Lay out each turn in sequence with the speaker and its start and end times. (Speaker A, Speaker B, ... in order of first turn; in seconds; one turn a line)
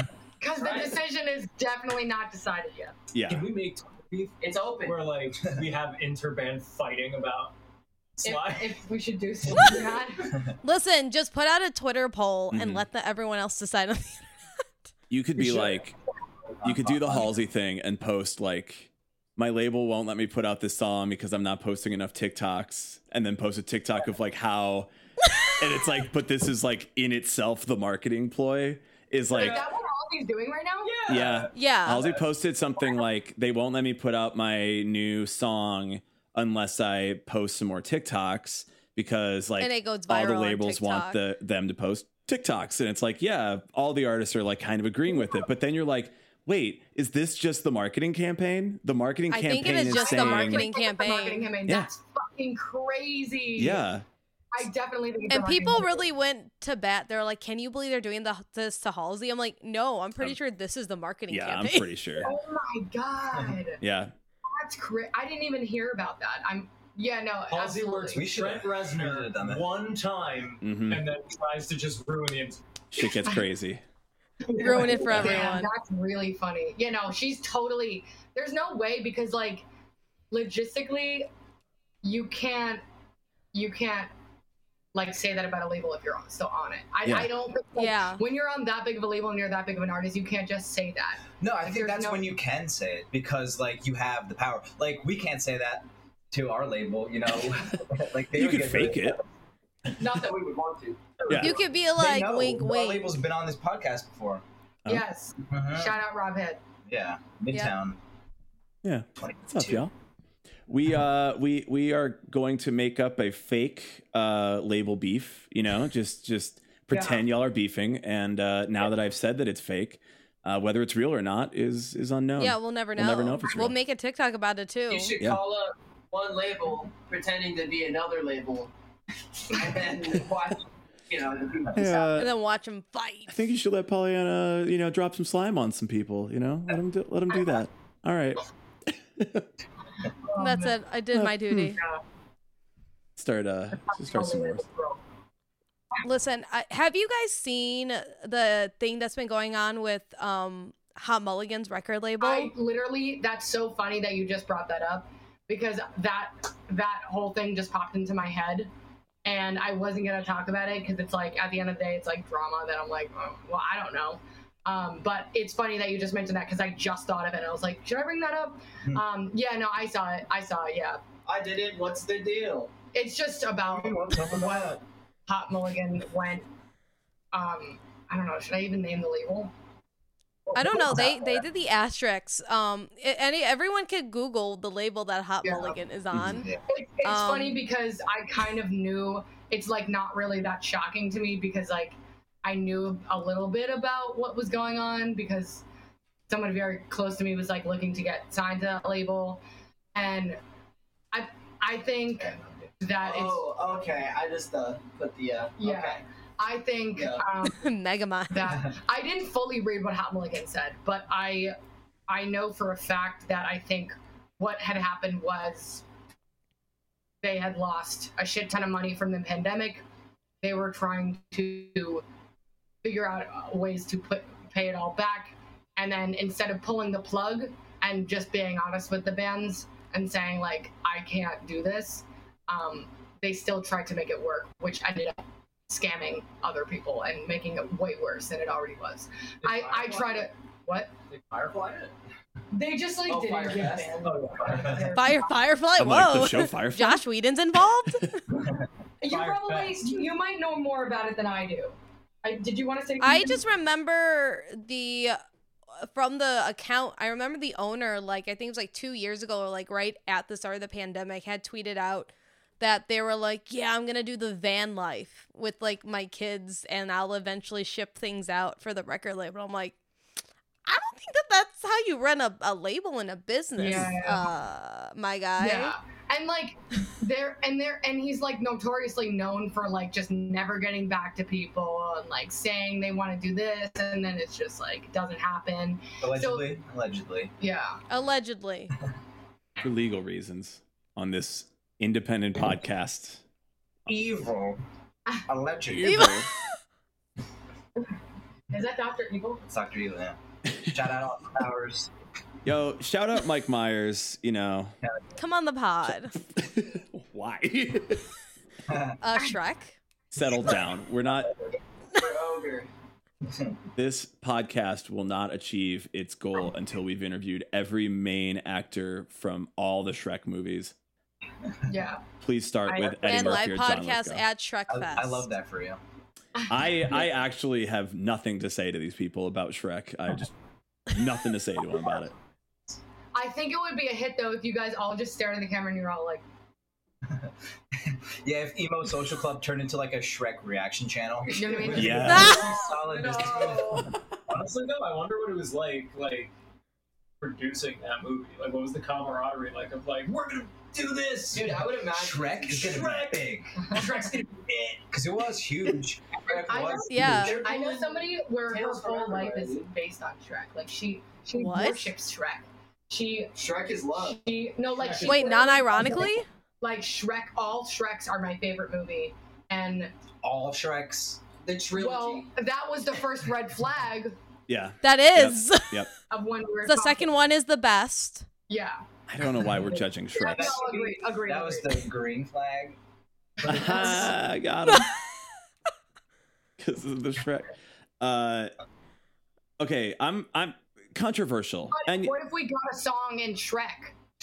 Speaker A: 0.4-2.9
Speaker B: 0.6-1.0
Speaker C: 3.1-3.5
Speaker D: 3.2-7.5
Speaker B: 4.4-5.0
Speaker D: 8.2-8.7
Speaker A: 8.2-10.4
Speaker D: 9.5-9.8
Speaker E: 10.6-14.3
Speaker C: 12.5-12.8
Speaker C: 15.1-15.9
Speaker F: 15.4-15.8
Speaker F: 16.6-17.4
Speaker C: 16.6-24.9
Speaker C: 25.4-29.7
Speaker A: 29.3-31.0
Speaker D: 29.3-29.6
Speaker D: 30.8-31.5
Speaker C: 31.1-50.7
Speaker E: 31.5-32.0
Speaker E: 39.6-41.2
Speaker E: 49.3-51.5
Speaker A: 49.8-53.8
Speaker C: 53.5-54.0
Speaker A: 54.5-56.0
Speaker E: 55.3-61.9
Speaker C: 61.3-62.3
Speaker A: 62.2-63.8
Speaker F: 63.3-63.6
Speaker C: 63.8-64.1
Speaker A: 64.5-68.3
Speaker D: 67.5-72.6
Speaker F: 68.1-69.7
Speaker C: 70.6-71.0
Speaker C: 72.9-73.8
Speaker E: 74.6-75.7
Speaker D: 74.6-74.9
Speaker A: 74.6-79.6
Speaker C: 74.9-75.6
Speaker A: 80.3-81.3
Speaker A: 82.0-82.8
Speaker A: 83.5-84.1
Speaker A: 84.9-92.3
Speaker C: 87.0-87.3
Speaker E: 87.8-88.2
Speaker F: 91.4-99.2
Speaker C: 98.3-99.2
Speaker B: 100.0-101.1
Speaker C: 101.3-101.6
Speaker E: 101.3-103.2
Speaker F: 101.3-104.4
Speaker A: 104.9-106.6
Speaker F: 105.5-106.0
Speaker F: 106.9-108.0
Speaker C: 108.8-109.9
Speaker F: 109.2-109.8
Speaker C: 110.7-123.7
Speaker E: 122.4-125.1
Speaker B: 124.9-128.7
Speaker B: 129.5-132.1
Speaker C: 131.7-132.3
Speaker E: 132.2-133.4
Speaker C: 133.3-138.4
Speaker C: 139.2-139.5
Speaker A: 140.2-140.7
Speaker E: 140.4-141.8
Speaker C: 141.1-141.8
Speaker A: 141.8-142.0
Speaker C: 143.2-144.6
Speaker A: 143.8-145.0
Speaker E: 146.0-152.5
Speaker A: 152.2-158.7
Speaker A: 159.2-171.0
Speaker B: 171.2-172.7
Speaker A: 172.9-176.5
Speaker F: 173.6-174.8
Speaker A: 177.3-179.5
Speaker E: 180.5-186.5
Speaker F: 180.8-181.0
Speaker A: 185.4-185.7
Speaker F: 186.3-186.6
Speaker A: 186.7-195.6
Speaker E: 187.0-187.6
Speaker A: 196.3-199.4
Speaker A: 199.9-200.4
Speaker A: 201.1-203.4
Speaker F: 202.2-202.7
Speaker B: 203.0-206.0
Speaker A: 205.6-207.6
Speaker B: 206.9-207.2
Speaker E: 207.4-208.6
Speaker A: 208.3-211.5
Speaker A: 212.1-215.8
Speaker A: 217.2-219.8
Speaker A: 220.4-222.0
Speaker A: 222.8-240.9
Speaker D: 239.4-240.3
Speaker D: 241.1-241.9
Speaker A: 242.5-245.4
Speaker B: 243.1-244.1
Speaker D: 244.0-244.9
Speaker E: 244.9-248.2
Speaker C: 245.8-247.0
Speaker A: 249.0-253.4
Speaker D: 249.1-249.8
Speaker E: 253.0-255.2
Speaker E: 255.8-269.8
Speaker E: 270.6-275.7
Speaker A: 273.6-274.2
Speaker A: 275.4-286.5
Speaker F: 286.0-287.3
Speaker A: 287.4-287.8
Speaker E: 287.9-288.7
Speaker C: 289.6-293.2
Speaker F: 293.9-294.6
Speaker F: 295.3-296.2
Speaker C: 295.8-296.3
Speaker E: 295.8-296.2
Speaker A: 298.5-299.4
Speaker F: 299.4-301.9
Speaker C: 302.4-304.8
Speaker E: 305.2-306.1
Speaker C: 305.9-308.0
Speaker F: 308.7-309.0
Speaker E: 309.0-309.8
Speaker C: 310.1-311.4
Speaker B: 311.9-312.7
Speaker C: 313.8-320.7
Speaker A: 321.7-322.0
Speaker C: 322.2-324.2
Speaker A: 322.7-323.4
Speaker E: 323.0-325.3
Speaker F: 324.7-325.8
Speaker A: 326.4-326.6
Speaker C: 326.5-330.3
Speaker C: 330.9-332.1
Speaker A: 333.1-336.2
Speaker F: 337.1-343.9
Speaker A: 341.3-343.9
Speaker C: 341.7-342.4
Speaker D: 341.8-346.3
Speaker E: 342.1-342.4
Speaker D: 347.2-351.6
Speaker B: 351.3-352.8
Speaker F: 351.9-353.7
Speaker D: 352.7-354.9
Speaker F: 354.9-357.2
Speaker B: 356.3-359.7
Speaker A: 356.4-363.3
Speaker E: 356.9-357.4
Speaker E: 361.3-361.9
Speaker B: 363.3-364.2
Speaker A: 363.9-369.9
Speaker D: 364.7-365.4
Speaker E: 365.0-366.2
Speaker F: 370.2-371.2
Speaker B: 371.4-372.3
Speaker A: 371.7-374.1
Speaker C: 374.5-375.9
Speaker E: 374.8-375.9
Speaker A: 376.1-377.1
Speaker E: 376.6-378.3
Speaker A: 378.5-378.8
Speaker C: 379.1-380.6
Speaker A: 380.1-381.8
Speaker F: 380.3-382.8
Speaker A: 383.4-384.2
Speaker C: 383.4-384.9
Speaker F: 383.7-384.1
Speaker C: 386.6-388.5
Speaker C: 389.6-392.1
Speaker A: 391.7-393.9